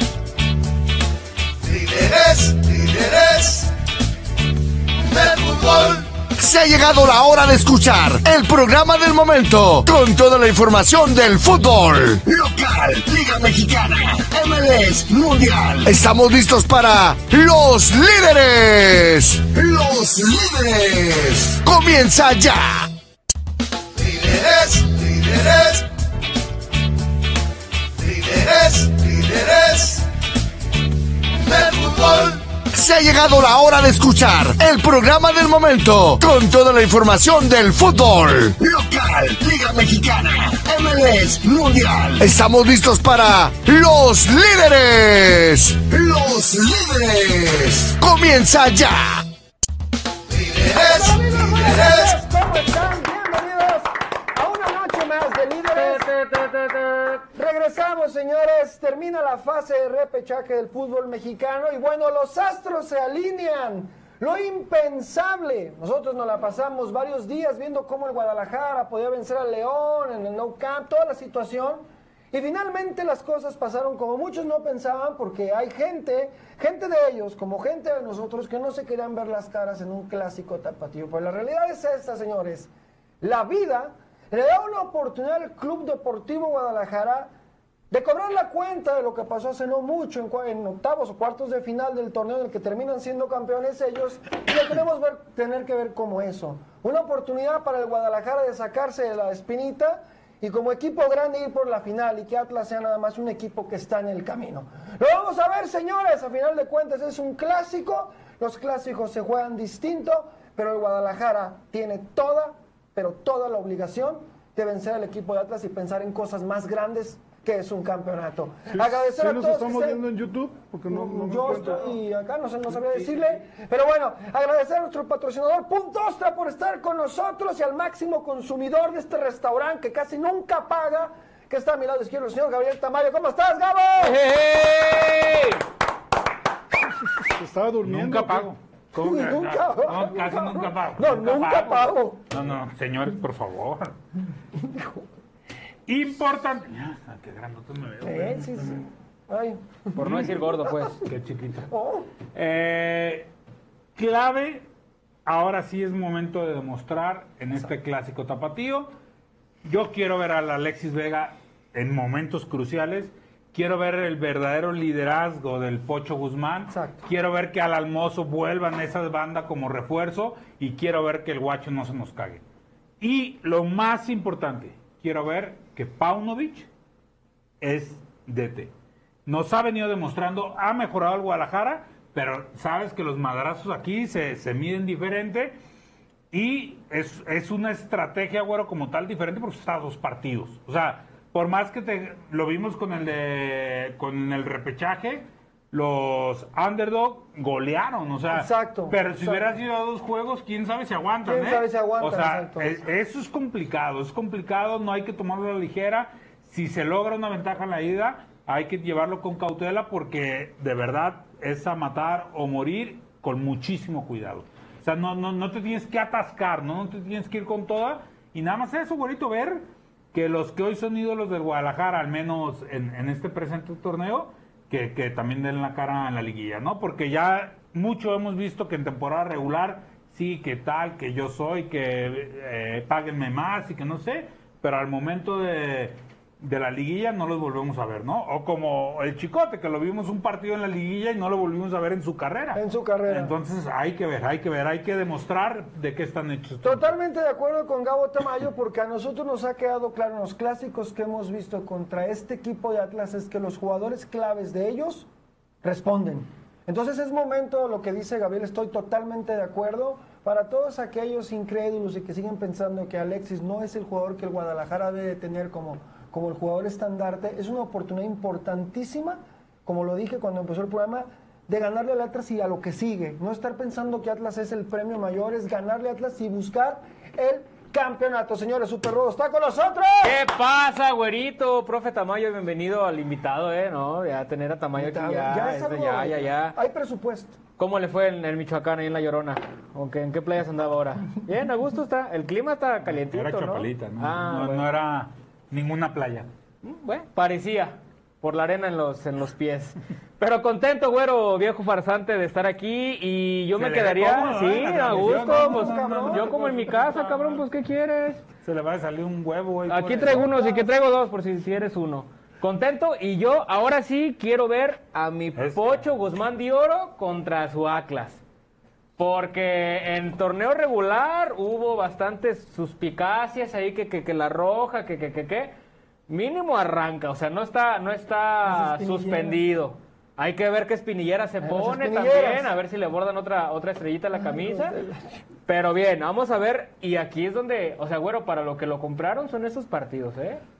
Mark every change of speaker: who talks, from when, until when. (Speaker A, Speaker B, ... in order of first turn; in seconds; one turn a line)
Speaker A: 1.7-3.7
Speaker A: 5.1-22.9
Speaker A: 24.0-25.8
Speaker A: 28.0-30.0
Speaker A: 31.4-49.2
Speaker B: 50.6-56.1
Speaker C: 55.8-57.2
Speaker B: 57.3-82.7
Speaker B: 83.2-87.3
Speaker B: 87.9-120.0
Speaker D: 118.7-122.0
Speaker B: 120.9-134.2
Speaker C: 134.0-135.6
Speaker D: 137.3-138.5
Speaker E: 137.8-143.9
Speaker B: 139.0-142.2
Speaker B: 144.6-145.0
Speaker E: 145.9-148.8
Speaker B: 148.0-151.0
Speaker C: 149.9-151.0
Speaker E: 150.0-150.3
Speaker E: 151.0-151.7
Speaker B: 151.7-152.1
Speaker E: 152.3-153.3
Speaker E: 153.9-154.7
Speaker E: 155.2-158.9
Speaker E: 159.6-172.4
Speaker B: 166.7-167.0
Speaker E: 173.0-176.7
Speaker E: 177.6-178.7
Speaker E: 179.2-185.6
Speaker E: 186.3-246.9
Speaker B: 198.3-199.4
Speaker B: 201.2-202.7
Speaker B: 242.5-243.3
Speaker B: 246.6-255.1
Speaker B: 255.6-280.2
Speaker C: 280.0-286.6
Speaker B: 284.7-287.4
Speaker C: 287.6-294.7
Speaker E: 293.0-296.3
Speaker C: 296.6-308.2
Speaker E: 303.6-306.5
Speaker B: 305.2-306.4
Speaker D: 306.7-307.2
Speaker E: 308.4-310.3
Speaker C: 309.7-318.2
Speaker B: 310.3-310.7
Speaker E: 315.4-315.8
Speaker C: 319.0-325.5
Speaker C: 326.1-334.8
Speaker B: 328.4-329.4
Speaker B: 331.4-332.5
Speaker B: 334.1-335.2
Speaker C: 335.5-340.4